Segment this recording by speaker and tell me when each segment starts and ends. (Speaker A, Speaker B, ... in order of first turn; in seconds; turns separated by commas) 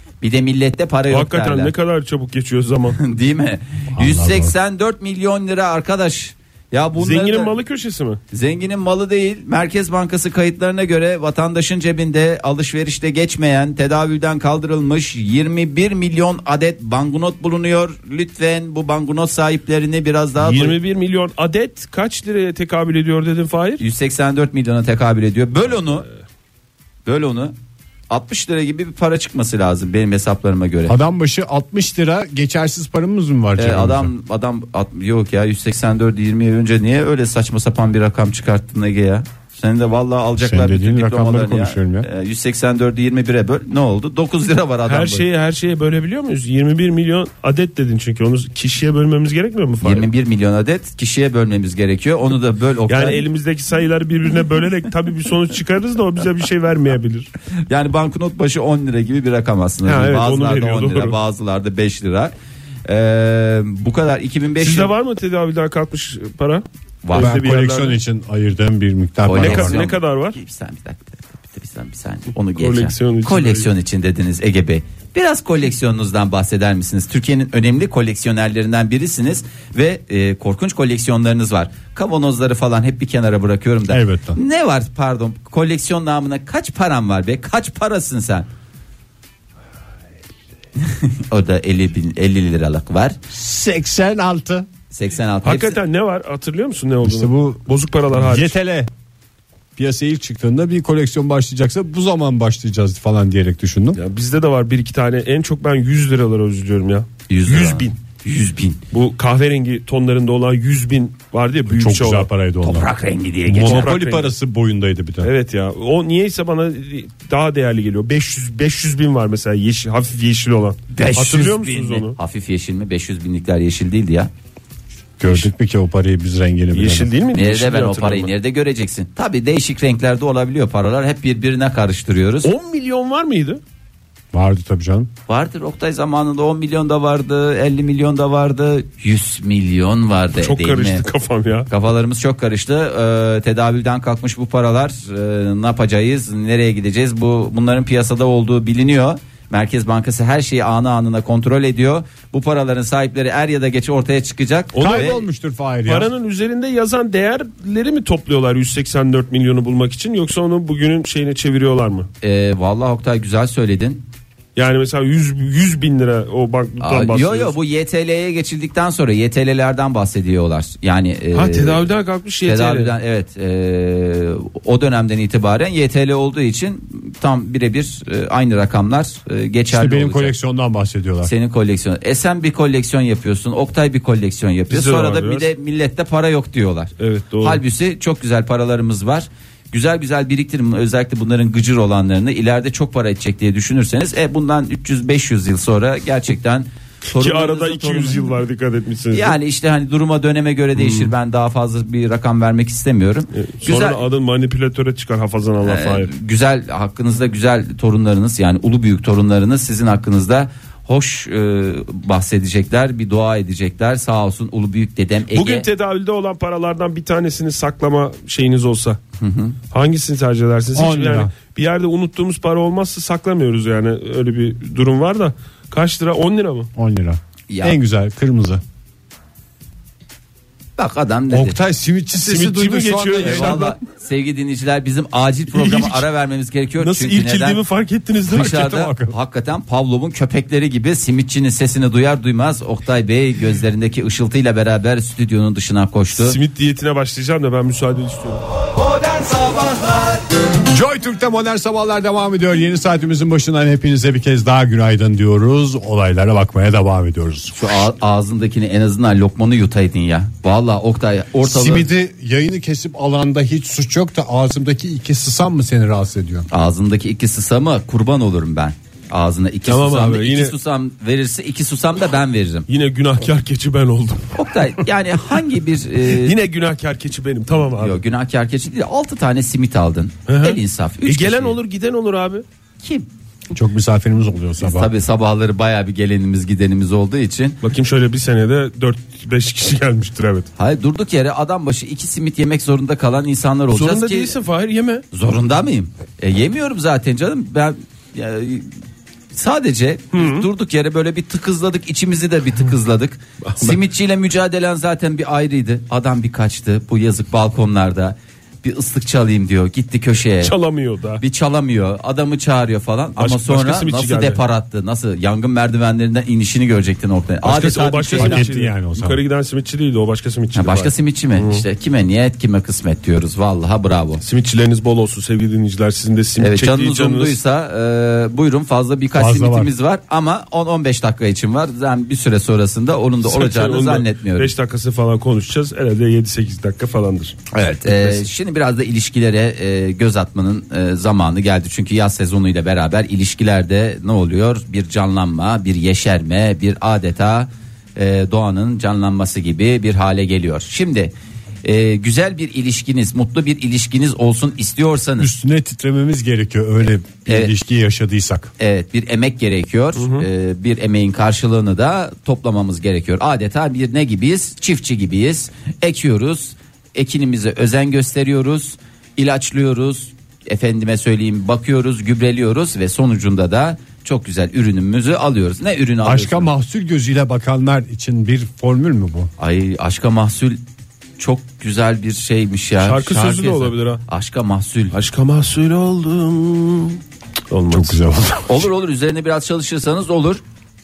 Speaker A: 0.2-1.7, Speaker B: 1.1-3.0, Speaker A: 3.0-7.5, Speaker C: 4.0-4.5, Speaker B: 7.0-8.2, Speaker A: 8.3-20.8, Speaker B: 20.4-23.8, Speaker A: 23.8-26.1, Speaker A: 27.1-27.5, Speaker A: 28.1-30.9, Speaker C: 30.9-34.1, Speaker A: 33.5-45.2, Speaker C: 40.4-42.1, Speaker B: 44.9-50.1, Speaker A: 49.8-53.2, Speaker B: 52.9-57.3, Speaker A: 57.7-62.3, Speaker B: 59.8-61.2, Speaker A: 62.9-64.9, Speaker B: 64.6-68.0, Speaker A: 67.0-67.4, Speaker C: 67.2-69.8, Speaker A: 69.2-88.5, Speaker B: 69.3-70.4, Speaker B: 72.6-73.7, Speaker C: 83.9-84.4, Speaker A: 90.8-93.2, Speaker C: 93.3-94.7, Speaker A: 94.9-95.8, Speaker B: 95.4-98.5, Speaker C: 97.0-98.9, Speaker C: 99.8-104.0, Speaker B: 104.0-107.9, Speaker A: 107.3-108.8, Speaker B: 108.9-112.3, Speaker C: 111.7-112.9, Speaker A: 112.6-113.9, Speaker C: 113.5-115.3, Speaker B: 113.6-114.3, Speaker B: 115.2-122.2, Speaker A: 120.9-124.3, Speaker C: 125.2-127.1, Speaker B: 126.7-128.3, Speaker A: 127.3-132.5, Speaker B: 132.4-133.6, Speaker C: 134.3-135.1, Speaker A: 135.3-141.0, Speaker B: 140.3-141.7, Speaker A: 141.7-155.2, Speaker B: 154.7-155.1, Speaker C: 154.8-156.1, Speaker B: 155.8-162.1, Speaker A: 162.2-164.0, Speaker B: 164.6-167.5, Speaker A: 166.8-171.8, Speaker B: 171.3-172.9, Speaker A: 172.4-180.3, Speaker C: 179.7-181.3, Speaker A: 181.2-198.2, Speaker B: 184.7-185.5, Speaker B: 187.0-187.6, Speaker B: 197.2-199.3, Speaker A: 199.1-204.0, Speaker B: 200.8-201.1, Speaker B: 203.3-206.1, Speaker A: 205.6-215.7, Speaker B: 215.3-219.0, Speaker A: 219.2-219.6, Speaker B: 219.7-226.7, Speaker C: 220.7-221.3, Speaker C: 226.8-228.6, Speaker A: 227.5-227.8, Speaker A: 230.8-231.6, Speaker C: 231.3-233.7, Speaker B: 232.2-233.8, Speaker A: 233.2-237.6, Speaker B: 235.5-236.1, Speaker B: 236.8-238.7, Speaker A: 238.3-246.4, Speaker C: 238.3-239.1, Speaker B: 246.2-248.4, Speaker A: 249.2-249.8, Speaker C: 250.6-257.8, Speaker A: 257.5-261.9, Speaker C: 261.4-266.4, Speaker A: 266.5-272.7, Speaker B: 269.6-270.5, Speaker B: 272.7-274.4, Speaker A: 274.3-276.3, Speaker B: 276.0-278.0, Speaker A: 277.8-281.6, Speaker B: 280.3-282.4, Speaker A: 282.8-283.1, Speaker C: 283.5-284.9, Speaker A: 284.6-287.6, Speaker B: 287.6-290.5, Speaker A: 290.6-294.3, Speaker B: 293.7-295.0, Speaker A: 295.1-298.7, Speaker A: 299.3-310.5, Speaker B: 300.1-300.5, Speaker B: 303.4-303.8, Speaker B: 310.4-311.2, Speaker A: 311.2-318.5, Speaker B: 313.2-314.4, Speaker B: 317.4-321.6, Speaker C: 318.1-319.2, Speaker A: 320.5-324.2, Speaker B: 324.2-327.4, Speaker A: 326.4-334.5, Speaker C: 329.1-329.7, Speaker B: 333.2-338.2, Speaker A: 337.5-351.1, Speaker A: 351.6-355.3, Speaker C: 355.2-358.5, Speaker A: 357.2-357.5, Speaker A: 358.6-376.5, Speaker B: 359.9-360.3, Speaker C: 376.0-379.3, Speaker A: 379.4-380.6, Speaker A: 381.2-384.9, Speaker B: 382.8-384.0, Speaker B: 384.9-388.0, Speaker C: 387.7-388.7, Speaker A: 388.4-390.4